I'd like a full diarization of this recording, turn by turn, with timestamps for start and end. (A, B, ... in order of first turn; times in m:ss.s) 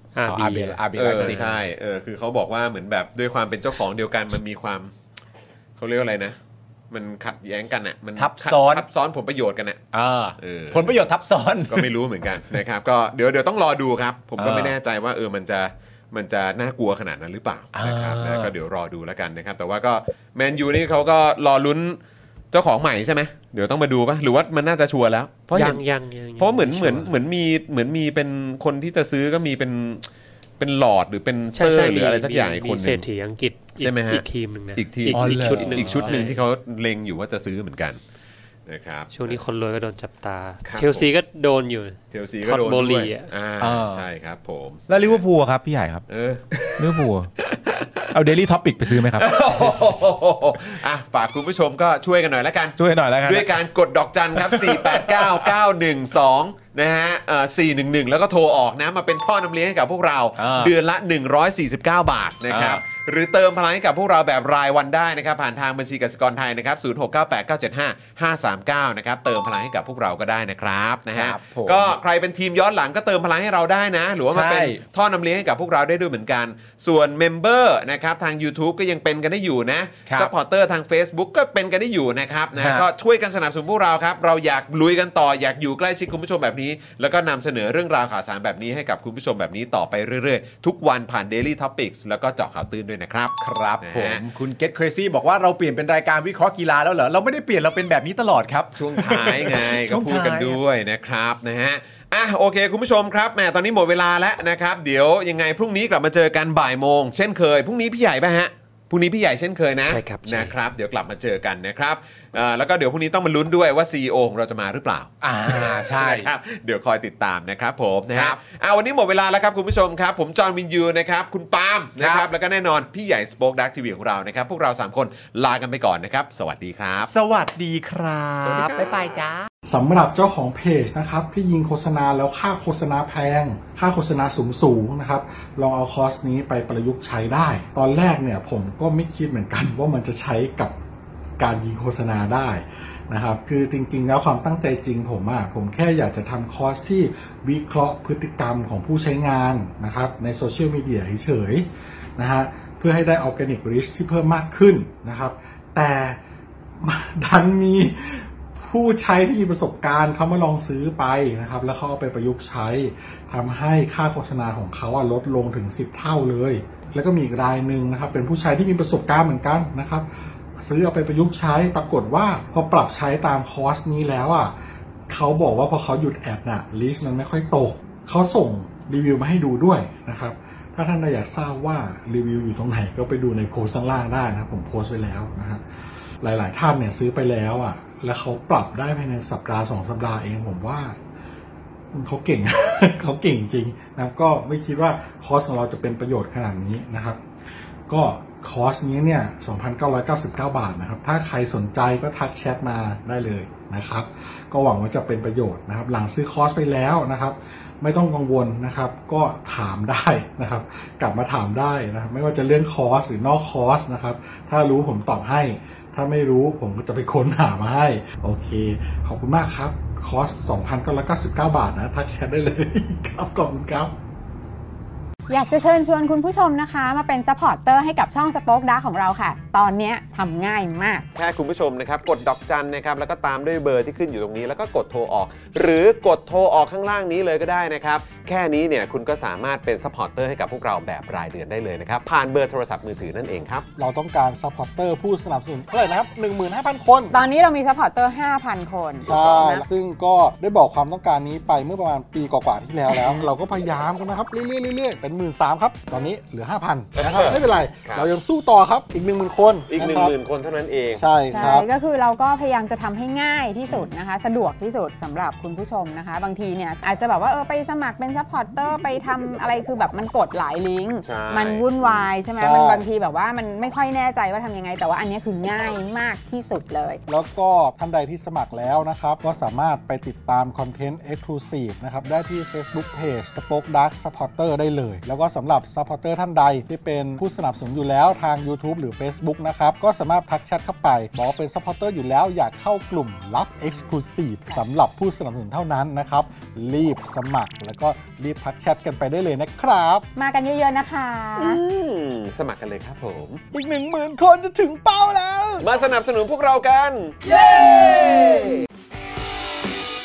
0:00.2-0:01.4 A
0:00.2-0:01.5 B
0:01.0-0:04.9 C
0:05.8-0:06.4 C
0:06.9-0:09.8 C
0:08.2-0:08.8 B
0:09.9-0:11.9 B
0:10.4-0:10.9 C
0:11.7-0:22.0 C
0:14.4-0:14.7 B
0:17.7-0:18.5 B
0:22.5-0:25.8 C
0:25.5-0:27.1 A
0:26.4-0:30.1 C
0:30.6-0:33.1 C
0:31.5-0:36.4 A
0:33.8-0:38.0 C
0:35.1-0:36.2 B
0:38.7-0:39.4 C
0:39.1-0:43.3 A
0:40.6-0:41.1 C
0:42.1-0:45.2 C
0:43.6-0:44.0 B
0:44.9-0:46.0 B
0:46.1-0:48.2 C
0:46.6-0:47.3 B
0:48.1-0:49.3 B
0:48.9-1:34.2 C
0:52.8-0:53.6 B
0:54.4-0:55.5 B
1:00.4-1:00.7 B
1:02.5-1:02.8 B
1:11.2-1:12.0 B
1:14.3-1:14.8 B
1:22.6-1:22.8 B
1:33.4-1:40.6 B
1:38.8-2:07.1 C
1:49.9-1:50.5 A
1:55.2-1:56.3 B
1:58.1-1:58.4 B
2:02.0-2:02.3 B
2:07.0-2:09.5 B
2:08.4-2:09.2 C
2:09.7-2:20.8 D
2:21.4-2:36.2 D
2:36.8-2:50.1 D
2:50.6-2:54.6 D
2:55.1-3:05.6 D
3:06.2-3:11.0 D
3:11.9-3:17.2 D
3:17.9-3:43.9 D
3:45.3-3:51.1 E
3:51.2-4:03.7 C
4:03.8-4:07.1 D
4:07.1-4:09.7 E
4:09.0-4:20.2 D
4:12.9-4:13.3 E
4:17.0-4:18.1 C
4:19.7-4:21.0 C
4:20.9-4:21.7 D
4:21.3-4:37.0 E
4:31.0-4:32.1 C
4:32.4-4:32.8 D
4:37.1-5:00.1 D
5:00.2-5:01.6 E
5:01.4-5:03.4 C
5:03.5-5:05.7 D
5:05.6-5:08.6 C
5:07.3-5:08.6 D